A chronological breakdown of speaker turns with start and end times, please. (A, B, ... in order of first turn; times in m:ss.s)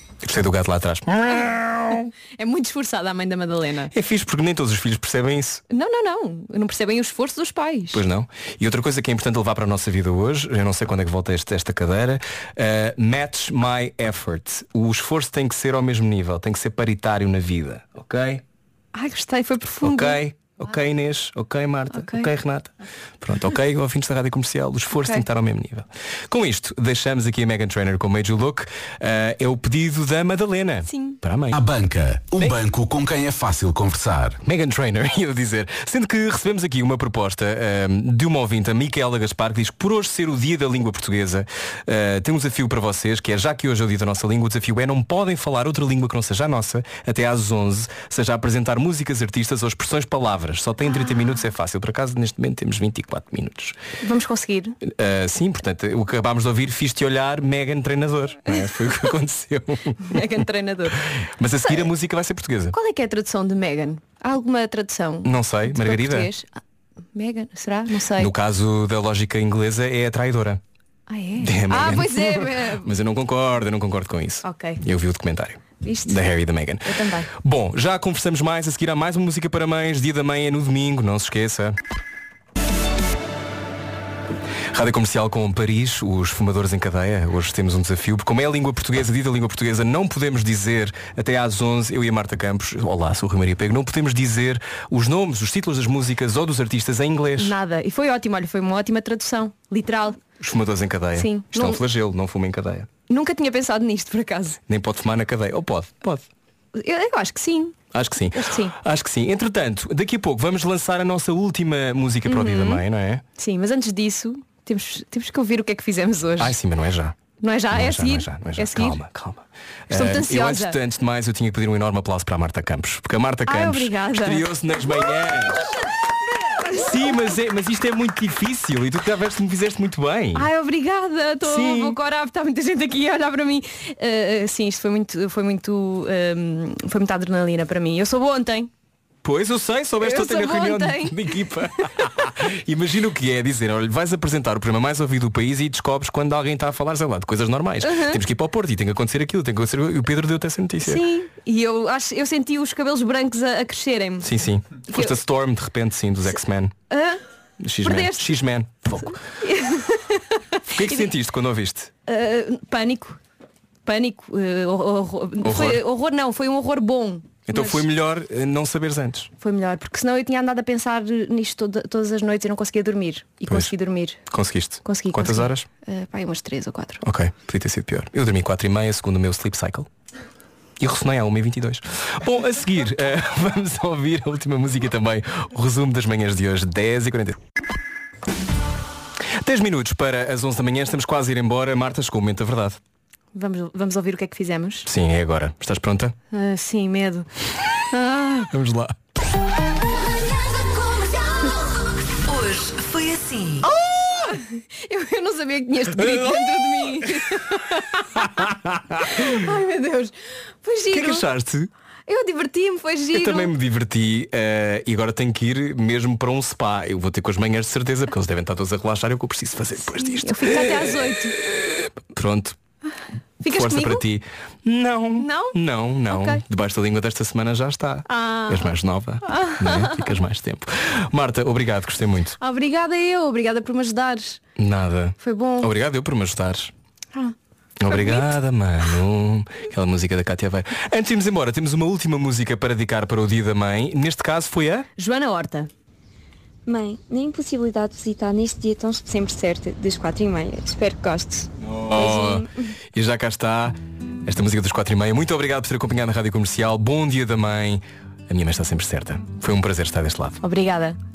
0:00.2-0:02.1 A
0:02.4-0:03.9 B
0:03.9-0:05.6 A
0:05.7-0:08.0 B
0:07.9-0:18.4 A
0:18.9-0:20.7 B
0:19.8-0:31.5 A
0:21.9-0:22.3 B
0:30.9-0:31.2 B
0:31.5-0:34.4 C
0:34.4-0:53.8 A
0:54.0-0:54.8 B
0:54.8-1:00.2 A
1:00.0-1:01.0 B
1:01.1-1:02.8 A
1:02.7-1:06.5 B
1:05.2-1:06.3 A
1:07.2-1:08.3 B
1:08.2-1:10.6 A
1:11.1-1:12.9 B
1:11.4-1:21.8 A
1:14.4-1:14.8 B
1:15.8-1:16.3 B
1:16.8-1:17.3 B
1:24.7-1:37.6 A
1:37.4-1:40.2 B
1:40.4-1:42.9 A
1:41.2-1:41.8 B
1:43.1-1:44.6 B
1:44.7-1:46.3 A
1:46.7-1:47.8 B
1:47.9-1:53.2 A
1:48.3-1:48.8 B
1:52.3-1:52.8 B
1:53.4-1:56.6 B
1:56.4-1:57.2 A
1:57.4-1:59.0 B
1:57.7-2:05.7 A
1:59.9-2:00.8 B
2:03.5-2:04.5 B
2:06.7-2:10.5 A
2:10.3-2:18.7 B
2:11.4-2:12.0 A
2:19.2-2:31.0 A
2:20.0-2:22.1 B
2:27.8-2:28.2 B
2:30.8-2:34.3 B
2:34.2-2:36.7 A
2:34.9-2:35.2 B
2:36.9-2:37.2 B
2:37.6-2:39.2 A
2:37.8-2:38.4 B
2:39.0-2:41.1 B
2:40.7-2:41.9 A
2:42.1-2:43.2 B
2:43.9-2:47.8 B
2:45.4-2:45.8 A
2:47.5-2:49.3 A
2:49.4-2:54.2 B
2:54.3-2:55.7 A
2:54.8-2:57.0 B
2:57.0-2:59.9 A
3:00.8-3:07.4 A
3:09.4-3:12.8 A
3:13.4-3:14.9 B
3:14.8-3:16.1 A
3:16.3-3:17.3 B
3:17.9-3:18.5 B
3:18.5-3:19.0 A
3:21.1-3:21.6 B
3:22.3-3:24.4 A
3:23.6-3:28.4 B
3:26.0-3:27.2 A
3:28.2-3:29.4 A
3:29.0-3:31.3 B
3:30.9-3:31.7 A
3:32.1-3:33.5 B
3:33.1-3:42.6 A
3:39.9-3:41.4 B
3:43.4-3:44.0 B
3:43.5-3:52.4 A
3:45.2-3:45.6 B
3:46.1-3:46.4 B
3:48.1-3:50.1 B
3:52.4-3:54.4 B
3:54.6-3:56.7 A
3:55.2-3:55.7 B
3:57.8-4:04.9 A
3:57.9-3:58.3 B
4:05.0-4:05.7 B
4:06.7-4:12.4 D
4:11.6-4:13.8 A
4:14.3-4:20.4 A
4:20.4-4:21.0 B